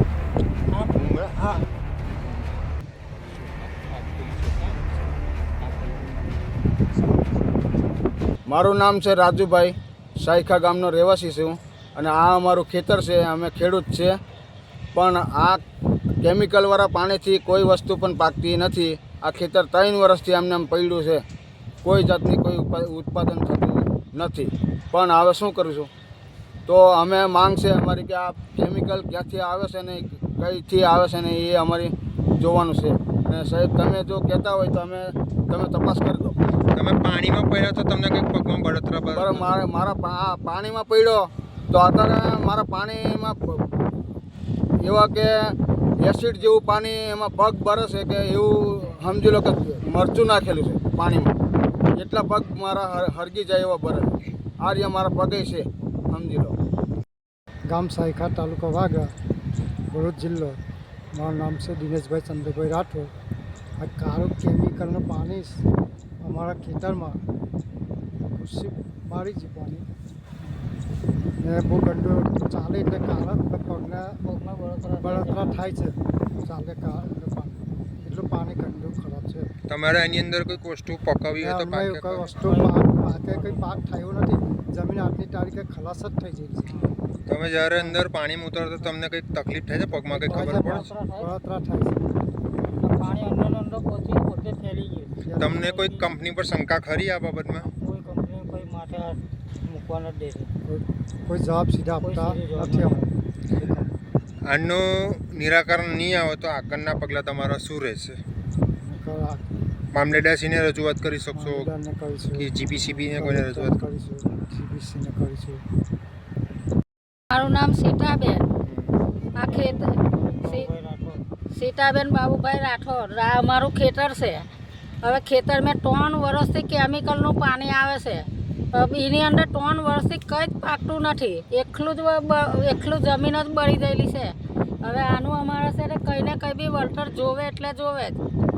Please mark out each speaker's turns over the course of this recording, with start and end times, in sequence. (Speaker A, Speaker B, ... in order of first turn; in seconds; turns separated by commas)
Speaker A: 0.7-1.6, Speaker A: 3.3-4.9, Speaker A: 5.6-6.2, Speaker B: 7.0-7.4, Speaker C: 8.5-14.1, Speaker C: 14.9-15.6, Speaker C: 16.2-21.2, Speaker C: 21.8-25.9, Speaker C: 26.6-36.4, Speaker A: 36.7-39.5, Speaker C: 39.1-43.6, Speaker C: 44.8-51.3, Speaker C: 52.0-56.5, Speaker B: 57.7-59.1, Speaker B: 59.9-60.6, Speaker B: 61.1-63.1, Speaker B: 63.8-65.6, Speaker B: 66.2-67.2, Speaker B: 68.3-69.8, Speaker B: 71.4-74.2, Speaker D: 74.3-75.4, Speaker E: 74.4-75.7, Speaker B: 75.0-79.5, Speaker A: 79.7-82.4, Speaker B: 81.4-86.8, Speaker E: 82.4-83.8, Speaker A: 87.3-90.9, Speaker B: 87.7-88.0, Speaker B: 90.1-92.1, Speaker E: 90.3-91.3, Speaker E: 92.8-96.1, Speaker B: 95.2-95.6, Speaker A: 95.4-97.7, Speaker E: 97.8-100.5, Speaker B: 100.7-103.9, Speaker E: 101.9-103.0, Speaker A: 104.4-108.2, Speaker B: 108.8-109.5, Speaker A: 109.9-111.7, Speaker B: 111.3-115.6, Speaker A: 112.3-113.8, Speaker D: 117.3-118.5, Speaker A: 118.6-119.0, Speaker D: 119.3-120.7, Speaker E: 119.3-121.2, Speaker D: 121.5-124.5, Speaker D: 125.0-138.2